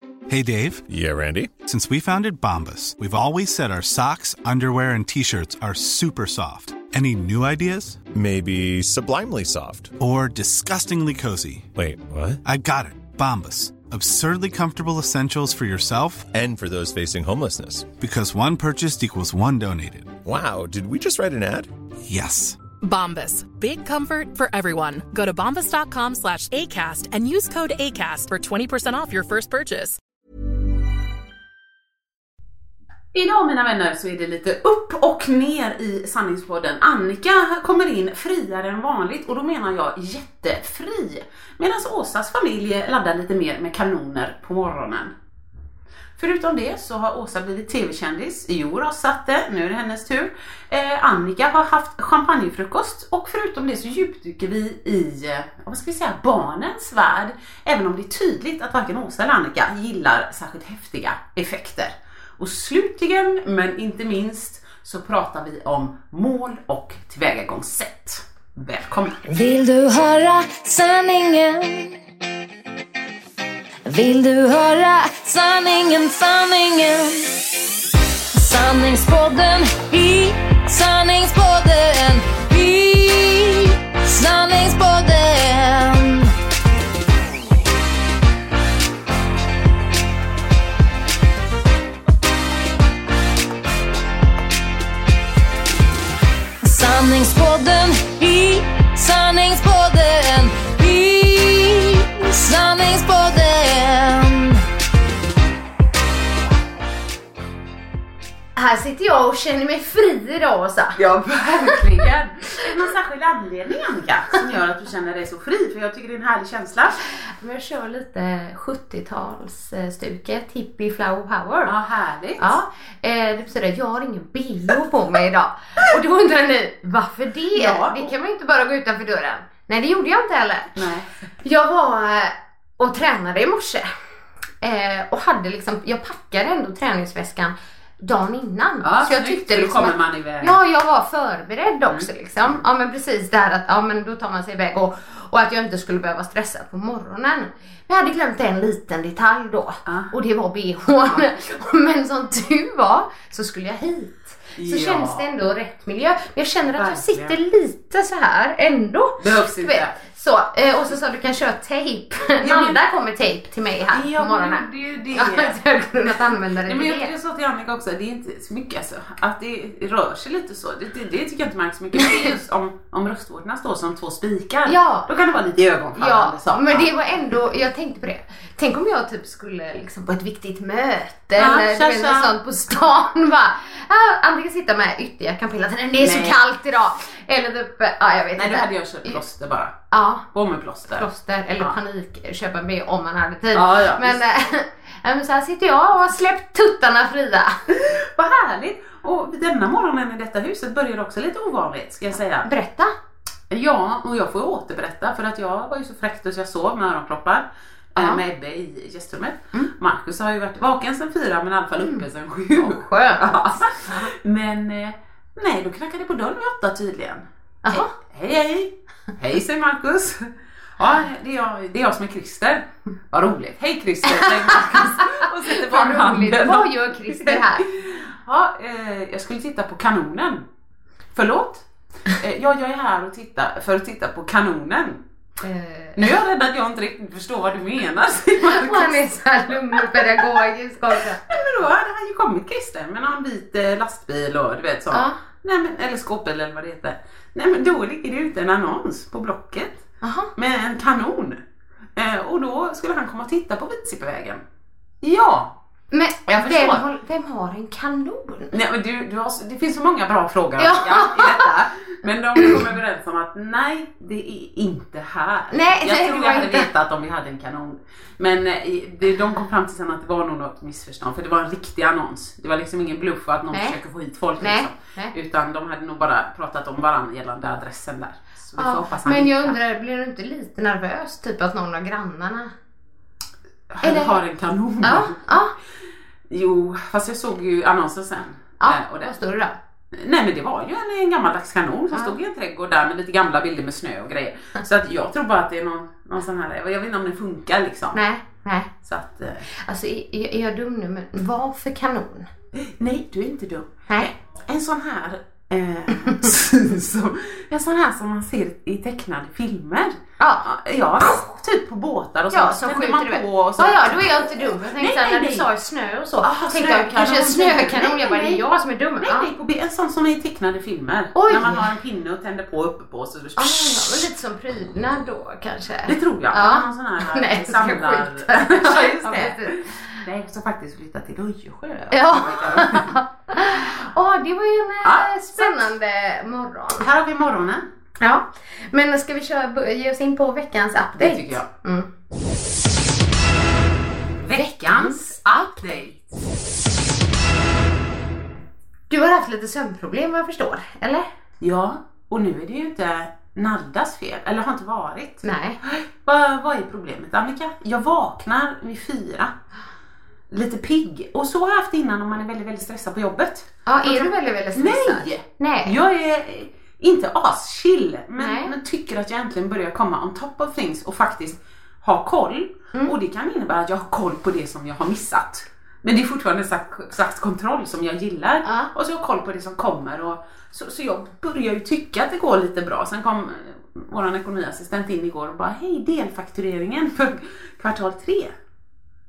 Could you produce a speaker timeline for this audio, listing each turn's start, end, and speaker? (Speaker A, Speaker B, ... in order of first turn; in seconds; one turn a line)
Speaker A: 0.3-0.8
Speaker B: 0.9-1.5
Speaker A: 1.7-8.0
Speaker B: 8.1-9.9
Speaker A: 10.0-11.7
Speaker B: 11.8-12.4
Speaker A: 12.4-16.3
Speaker B: 16.3-17.9
Speaker A: 18.0-20.1
Speaker B: 20.2-21.7
Speaker A: 22.1-22.6
Speaker C: 22.8-30.0
Speaker D: 33.1-45.1
Speaker D: 46.2-69.2
Speaker E: 69.3-72.0
Speaker E: 73.9-77.5
Speaker E: 78.3-86.3
Speaker E: 96.6-104.6
Speaker F: 108.6-111.0
Speaker D: 111.0-117.0
Speaker F: 117.1-121.8
Speaker D: 121.7-122.6
Speaker F: 122.4-130.9
Speaker D: 127.5-128.1
Speaker D: 130.8-131.1
Speaker F: 131.4-133.9
Speaker F: 134.6-167.1
Speaker D: 138.8-140.6
Speaker D: 149.9-150.1
Speaker D: 154.6-155.3
Speaker D: 156.7-157.4
Speaker D: 159.2-160.0
Speaker D: 162.4-162.8
Speaker D: 163.9-176.9
Speaker F: 172.0-172.3
Speaker F: 174.7-175.1
Speaker F: 175.9-189.2
Speaker D: 181.4-182.3
Speaker D: 186.0-186.4
Speaker D: 188.3-189.8
Speaker F: 189.9-190.2
Speaker D: 190.3-191.1
Speaker F: 190.9-197.6
Speaker D: 193.5-194.2
Speaker D: 197.7-202.5
Speaker F: 202.4-202.9
Speaker D: 203.5-230.5
Speaker F: 208.0-208.2
Speaker F: 212.6-214.1
Speaker F: 217.7-217.9
Speaker F: 224.2-227.7
Speaker D: 231.1-235.0
Speaker F: 235.4-236.1
Speaker D: 236.0-239.0
Speaker F: 238.4-241.2
Speaker D: 239.7-240.4
Speaker D: 240.9-249.8
Speaker F: 244.9-245.2
Speaker F: 250.0-250.3
Speaker D: 250.4-251.4
Speaker D: 252.0-254.4
Speaker D: 255.0-255.6
Speaker F: 255.9-258.5
Speaker D: 256.3-256.9
Speaker D: 258.5-279.6
Speaker F: 260.6-261.5
Speaker F: 265.5-266.7
Speaker F: 273.5-273.8
Speaker F: 274.4-275.1
Speaker F: 278.6-282.5
Speaker D: 283.7-285.3
Speaker F: 283.8-284.2
Speaker F: 284.8-285.5
Speaker D: 286.3-289.2
Speaker F: 288.6-289.6
Speaker D: 289.9-298.0
Speaker F: 297.9-298.7
Speaker D: 298.8-299.5
Speaker F: 299.5-302.3
Speaker D: 302.5-315.5
Speaker F: 310.2-310.4
Speaker F: 312.3-319.3
Speaker D: 316.2-318.4
Speaker D: 319.0-324.1
Speaker F: 321.1-321.7
Speaker F: 323.4-330.0
Speaker D: 325.9-333.0
Speaker F: 331.9-336.9
Speaker D: 334.8-335.7
Speaker D: 336.8-337.7
Speaker F: 338.0-341.9
Speaker D: 341.0-341.5
Speaker D: 344.2-346.1
Speaker F: 344.4-345.8
Speaker F: 348.9-351.1
Speaker D: 351.4-359.3
Speaker F: 355.2-355.6
Speaker D: 360.3-388.4
Speaker F: 363.7-365.8
Speaker F: 368.2-368.5
Speaker F: 378.4-378.7